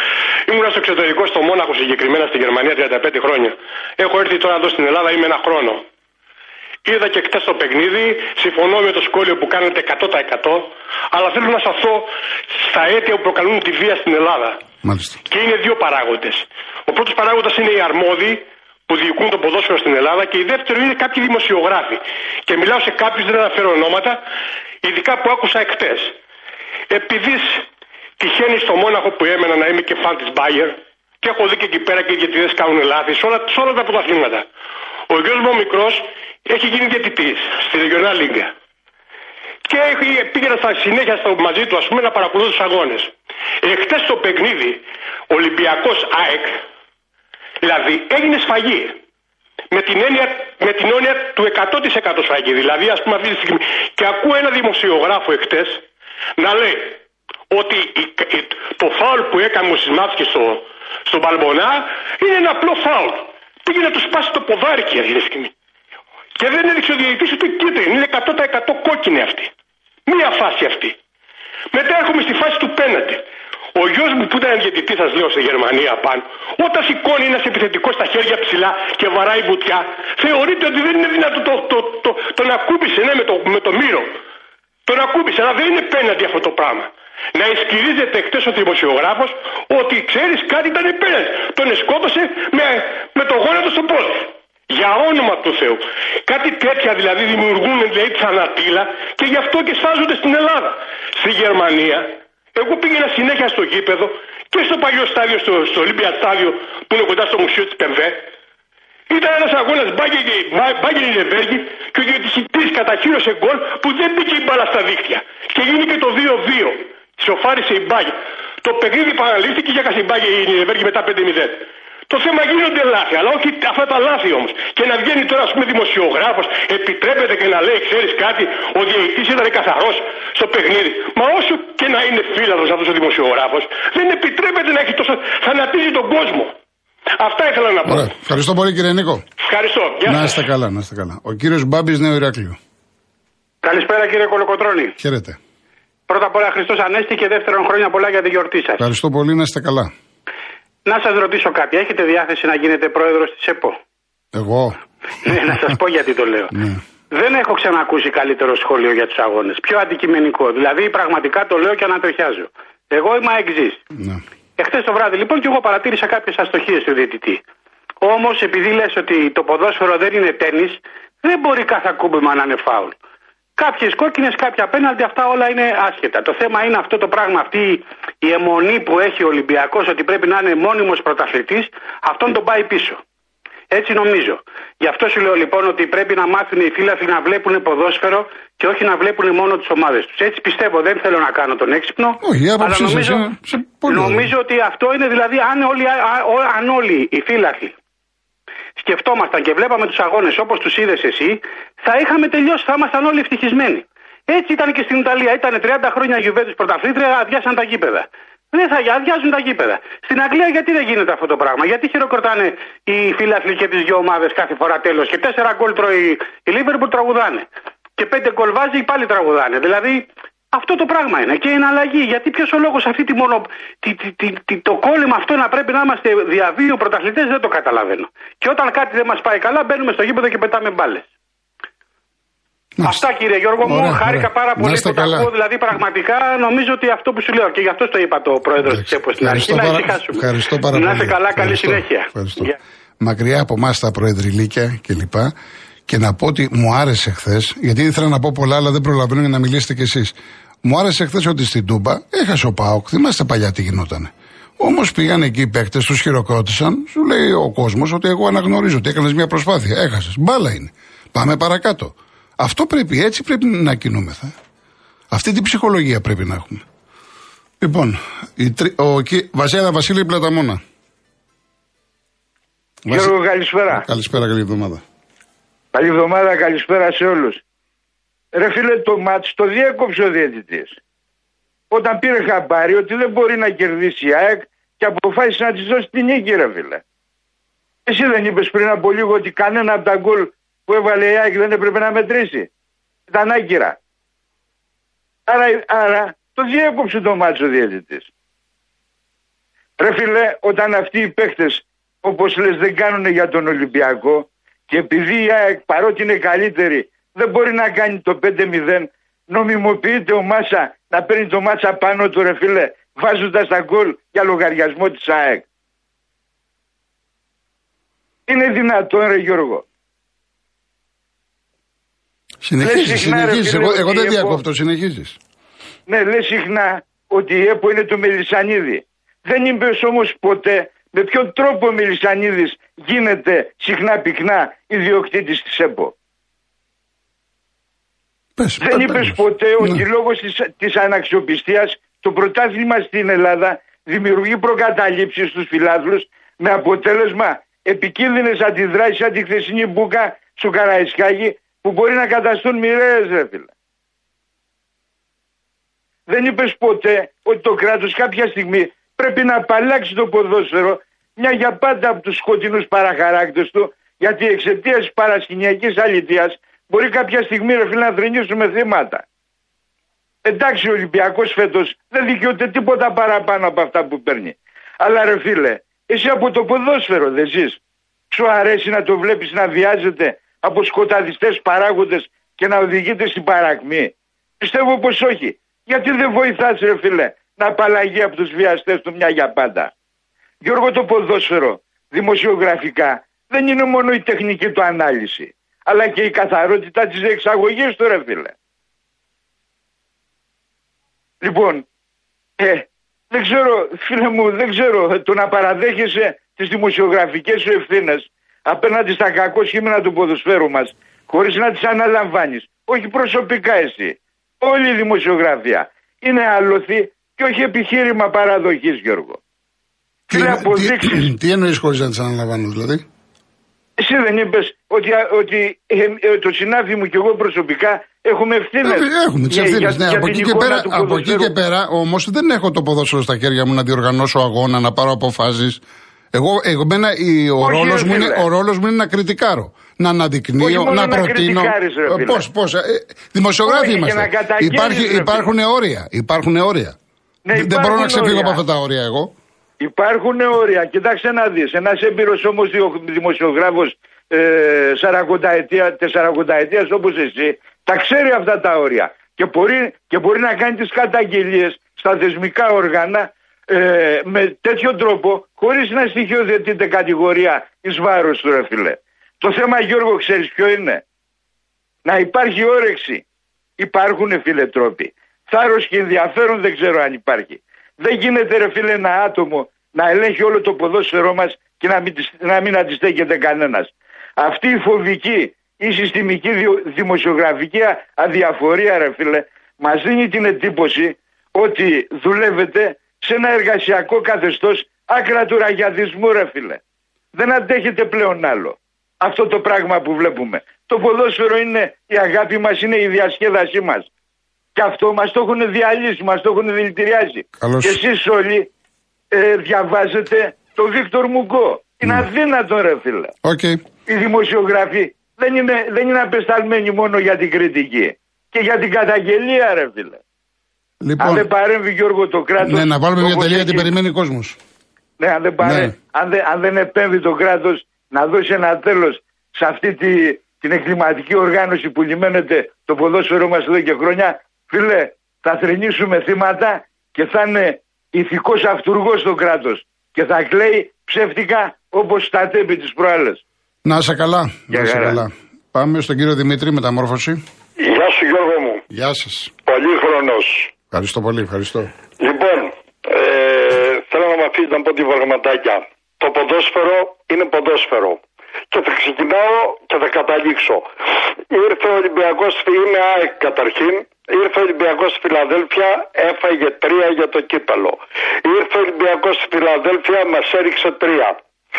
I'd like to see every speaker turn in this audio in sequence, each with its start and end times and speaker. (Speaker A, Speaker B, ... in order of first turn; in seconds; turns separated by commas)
Speaker A: 0.5-5.8, Speaker A: 6.8-12.1, Speaker A: 12.6-14.6, Speaker B: 14.8-15.2, Speaker A: 15.3-24.2, Speaker A: 24.8-26.2, Speaker A: 26.9-27.7, Speaker A: 28.2-34.5, Speaker A: 35.1-38.5, Speaker A: 39.7-43.1, Speaker A: 43.6-46.5, Speaker A: 47.6-49.0, Speaker A: 49.7-55.9, Speaker A: 56.4-57.0, Speaker A: 57.5-65.5, Speaker A: 66.4-69.5, Speaker A: 70.1-71.0, Speaker A: 71.7-73.2, Speaker A: 73.8-84.1, Speaker A: 84.9-108.2, Speaker A: 109.1-136.5, Speaker A: 137.2-138.1, Speaker B: 137.9-139.2, Speaker A: 139.4-140.4, Speaker B: 140.1-142.6, Speaker C: 143.6-144.9, Speaker B: 145.0-145.4, Speaker C: 146.1-148.9, Speaker B: 148.8-149.9, Speaker C: 150.8-153.8, Speaker B: 154.3-154.8, Speaker C: 155.2-156.6, Speaker C: 157.1-163.8, Speaker B: 164.0-164.2, Speaker C: 164.6-167.4, Speaker C: 168.0-173.0, Speaker C: 173.6-183.0, Speaker C: 183.7-197.8, Speaker B: 192.2-194.3, Speaker C: 198.8-231.1, Speaker B: 232.8-233.1, Speaker C: 232.8-242.5, Speaker B: 233.6-235.3, Speaker B: 238.7-245.3, Speaker B: 245.9-264.3, Speaker B: 265.1-266.6, Speaker B: 267.6-270.6, Speaker B: 272.9-273.1, Speaker D: 272.9-273.8, Speaker B: 273.7-274.8, Speaker D: 275.7-277.4, Speaker D: 278.3-280.8, Speaker D: 281.7-286.8, Speaker D: 287.9-292.5, Speaker D: 293.1-293.8, Speaker D: 295.3-298.1, Speaker D: 299.8-315.4, Speaker D: 318.3-319.6, Speaker B: 322.4-325.2, Speaker D: 322.6-324.5, Speaker D: 325.9-335.9, Speaker B: 338.4-339.7, Speaker D: 338.6-353.5, Speaker D: 356.1-369.1, Speaker D: 370.2-377.6, Speaker D: 378.1-389.7, Speaker D: 390.4-398.3, Speaker D: 401.2-401.7, Speaker D: 402.4-419.2, Speaker D: 420.1-421.1, Speaker B: 420.1-422.9, Speaker D: 423.8-431.4, Speaker B: 428.6-435.6, Speaker B: 436.1-446.8, Speaker D: 437.4-438.3, Speaker D: 440.4-442.2, Speaker D: 443.4-445.3, Speaker D: 447.2-448.4, Speaker B: 447.3-449.1, Speaker D: 449.6-470.8, Speaker D: 471.9-473.0, Speaker D: 473.6-496.6, Speaker D: 497.1-503.9, Speaker D: 504.6-508.5, Speaker B: 507.4-507.8, Speaker D: 509.1-513.1, Speaker B: 513.2-513.6, Speaker D: 513.9-520.0, Speaker B: 520.8-521.3, Speaker D: 521.0-523.7, Speaker B: 522.4-524.4, Speaker D: 525.0-543.2, Speaker B: 525.4-525.7, Speaker B: 543.6-547.2, Speaker D: 544.5-545.0, Speaker E: 547.6-548.6, Speaker B: 548.7-549.3, Speaker E: 549.5-550.5, Speaker B: 550.7-551.7, Speaker E: 552.0-560.7, Speaker E: 561.3-571.2